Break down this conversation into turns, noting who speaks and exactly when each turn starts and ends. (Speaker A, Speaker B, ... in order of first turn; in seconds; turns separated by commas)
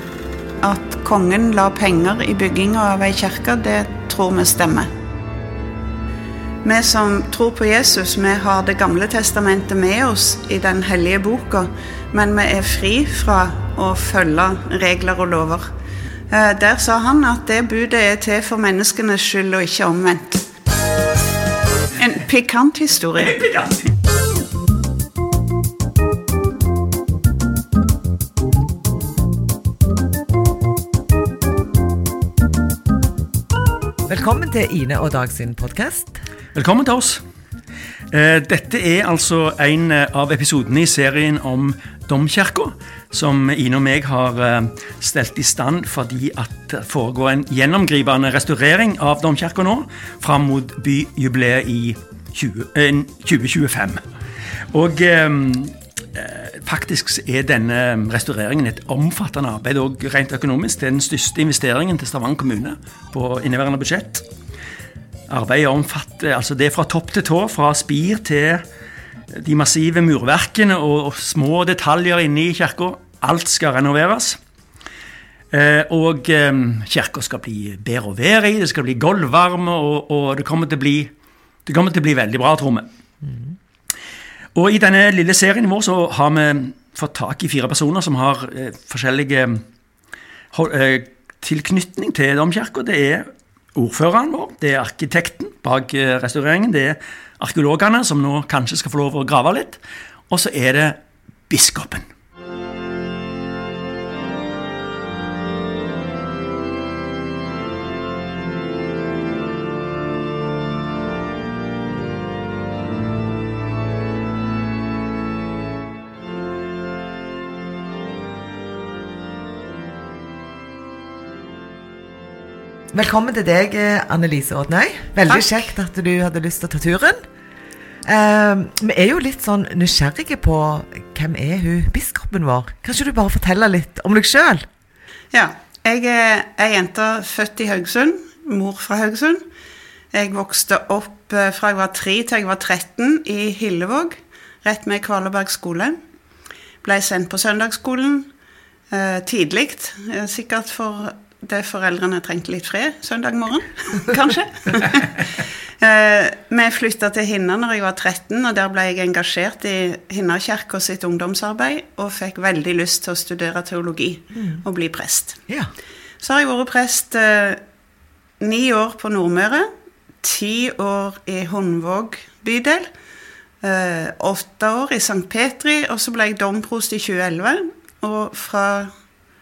Speaker A: 0.6-4.9, Speaker A: 6.6-15.7, Speaker A: 16.3-20.4, Speaker A: 22.0-23.4, Speaker B: 23.2-23.9, Speaker C: 34.0-36.2, Speaker B: 36.5-37.2, Speaker B: 38.1-54.0, Speaker B: 54.7-64.2, Speaker B: 65.3-68.6, Speaker B: 69.3-74.4, Speaker B: 75.5-81.1, Speaker B: 81.7-82.8, Speaker C: 83.2-83.5, Speaker B: 84.5-89.6, Speaker B: 90.5-99.8, Speaker B: 100.3-101.0, Speaker B: 101.5-102.0, Speaker C: 122.9-127.2, Speaker A: 125.3-125.6, Speaker C: 128.1-134.7, Speaker A: 135.3-139.4, Speaker A: 140.1-145.9, Speaker A: 146.8-148.3, Speaker A: 148.9-155.3, Speaker A: 155.8-165.4, Speaker C: 164.3-164.6, Speaker A: 166.2-167.6, Speaker A: 168.4-169.7, Speaker A: 170.2-172.9, Speaker A: 173.6-178.9